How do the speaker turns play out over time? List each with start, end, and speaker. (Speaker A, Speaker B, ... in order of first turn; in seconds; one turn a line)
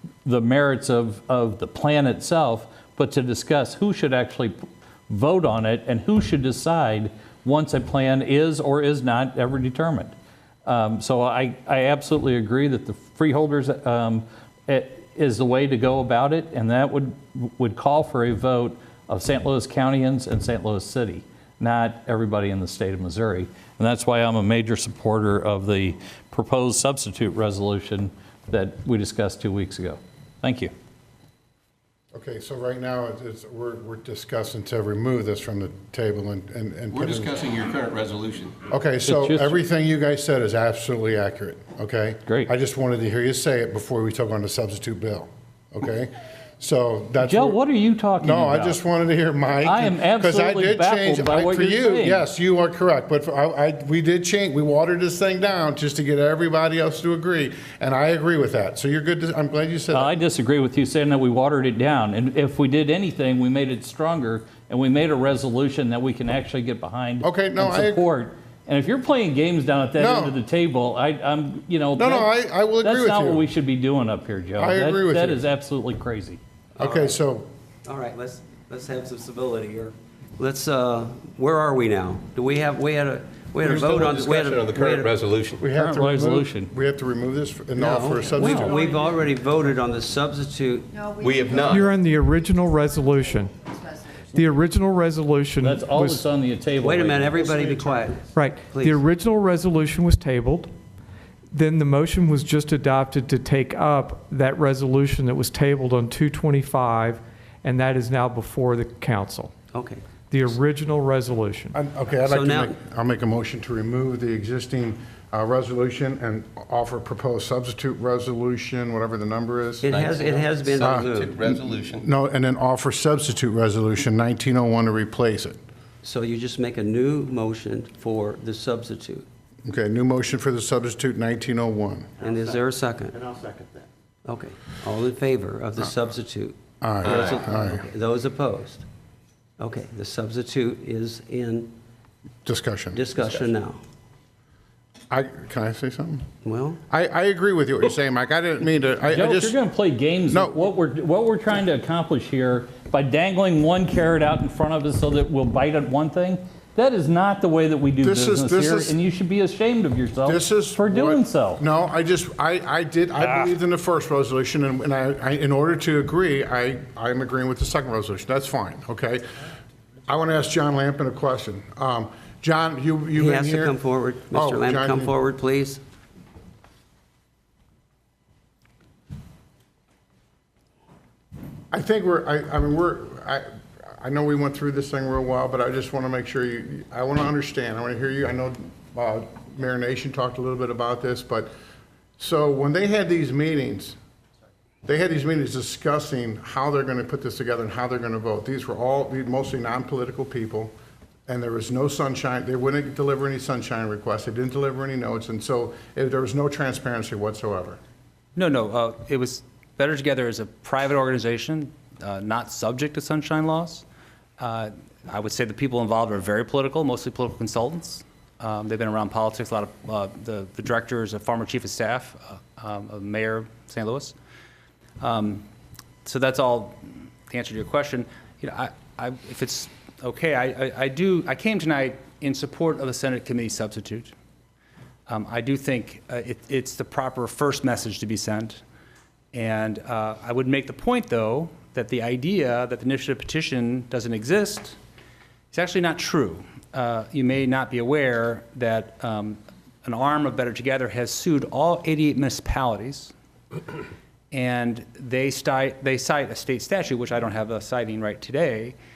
Speaker A: 0.2-4.6
Speaker A: 5.1-10.1
Speaker A: 10.7-30.7
Speaker B: 32.1-37.4
Speaker C: 36.9-38.7
Speaker B: 38.7-47.6
Speaker A: 39.0-39.6
Speaker A: 47.2-48.8
Speaker B: 48.2-60.2
Speaker A: 49.6-52.2
Speaker A: 59.9-72.3
Speaker B: 67.2-68.0
Speaker B: 70.0-70.4
Speaker B: 72.0-73.5
Speaker A: 72.8-76.4
Speaker B: 74.6-75.4
Speaker D: 76.8-77.2
Speaker B: 76.8-77.5
Speaker D: 77.8-85.1
Speaker C: 83.6-85.7
Speaker B: 85.6-89.0
Speaker A: 85.8-86.7
Speaker D: 87.8-91.1
Speaker A: 88.4-88.8
Speaker C: 91.2-91.9
Speaker E: 91.6-93.5
Speaker E: 94.3-96.2
Speaker A: 95.6-97.6
Speaker D: 96.8-99.0
Speaker E: 98.3-100.7
Speaker E: 101.5-109.5
Speaker D: 109.7-110.0
Speaker E: 110.3-111.8
Speaker B: 111.7-119.9
Speaker D: 112.2-112.8
Speaker D: 119.8-121.4
Speaker C: 119.9-122.1
Speaker B: 120.8-125.6
Speaker D: 126.0-129.3
Speaker B: 129.7-132.1
Speaker D: 132.2-133.3
Speaker D: 134.2-138.9
Speaker B: 136.8-137.8
Speaker C: 137.0-137.4
Speaker D: 139.6-141.7
Speaker B: 142.4-143.0
Speaker D: 142.9-143.8
Speaker B: 145.1-146.2
Speaker D: 146.4-146.8
Speaker B: 146.9-149.6
Speaker A: 149.1-161.6
Speaker B: 150.3-150.6
Speaker B: 158.0-159.0
Speaker B: 160.2-169.4
Speaker A: 163.2-163.5
Speaker B: 170.1-173.8
Speaker D: 173.2-175.8
Speaker B: 174.3-175.1
Speaker B: 181.7-191.5
Speaker B: 192.2-194.0
Speaker B: 194.8-200.7
Speaker B: 201.3-207.8
Speaker F: 208.4-213.8
Speaker F: 214.4-224.2
Speaker F: 225.0-225.5
Speaker F: 226.1-234.1
Speaker F: 235.1-238.6
Speaker F: 239.3-244.8
Speaker F: 245.5-253.1
Speaker F: 254.3-258.8